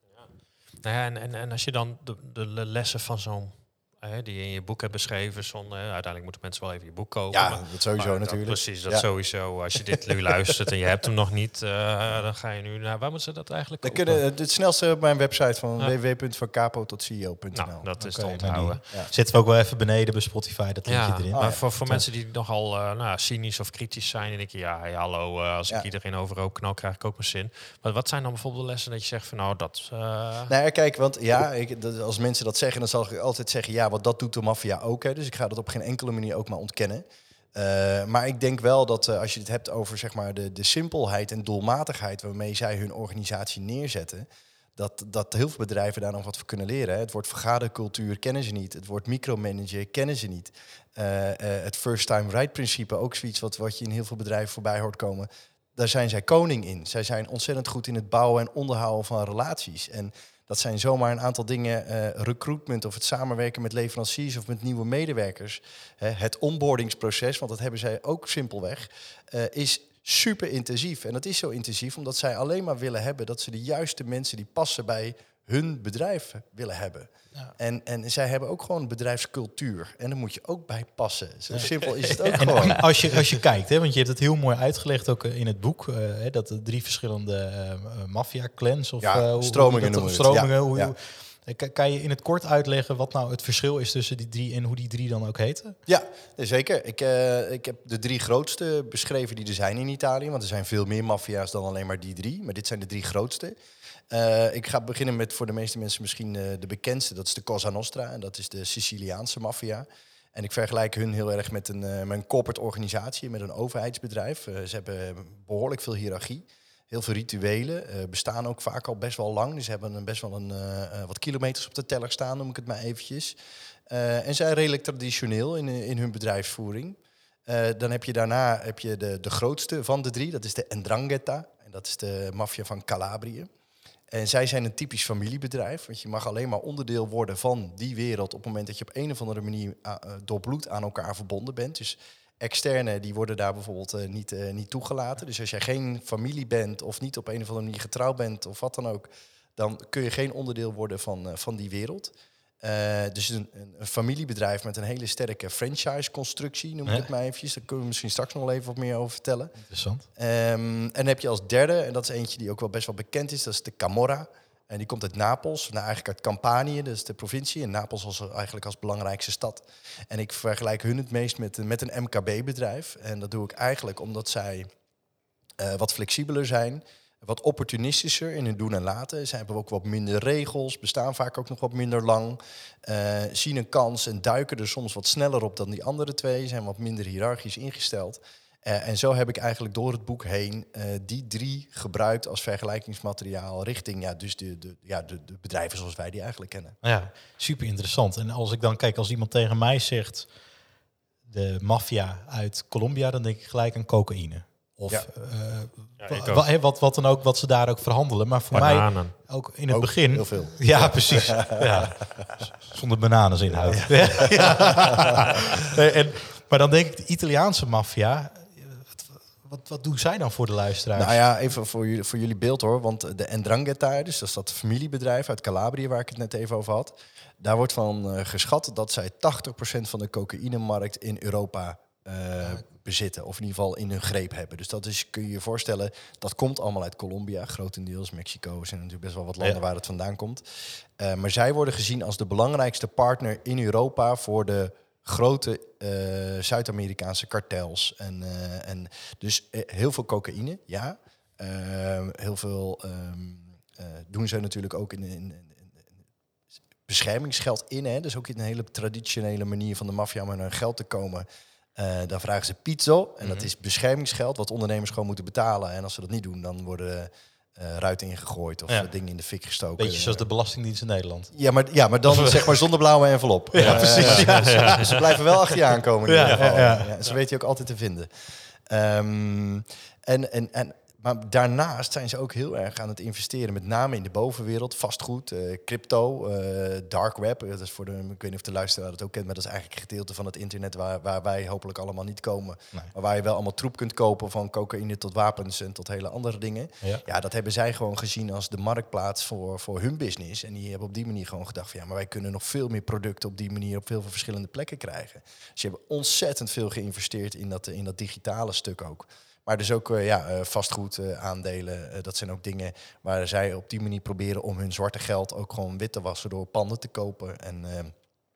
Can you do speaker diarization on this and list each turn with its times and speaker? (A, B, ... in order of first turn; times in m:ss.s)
0:00.1-0:14.2 A
0:07.3-0:09.1 B
0:09.7-0:10.3 B
0:13.8-0:18.4 B
0:17.5-0:18.8 A
0:18.0-0:22.0 C
0:20.8-0:30.5 A
0:21.3-0:21.6 B
0:30.5-1:22.8 B
1:21.6-1:22.8 A
1:22.4-1:35.8 C
1:29.0-1:30.9 B
1:35.9-1:43.5 B
1:44.1-2:03.4 B
2:03.9-2:13.5 B
2:14.1-2:39.6 B
2:39.7-2:40.0 C
2:40.1-2:54.7 B
2:55.6-3:16.8 B
3:16.8-3:20.3 C
3:21.3-3:41.2 C
3:26.0-3:26.4 A
3:28.5-3:29.1 A
3:29.7-3:32.2 B
3:33.5-3:35.2 B
3:40.9-4:00.4 B
4:01.0-4:15.9 B
4:16.9-4:30.2 B
4:23.2-4:23.5 A
4:29.8-4:31.3 C
4:31.3-4:38.1 B
4:32.1-4:32.5 C
4:33.5-4:35.0 C
4:33.5-4:35.1 A
4:36.0-4:36.9 C
4:36.2-4:36.5 A
4:38.6-5:17.9 B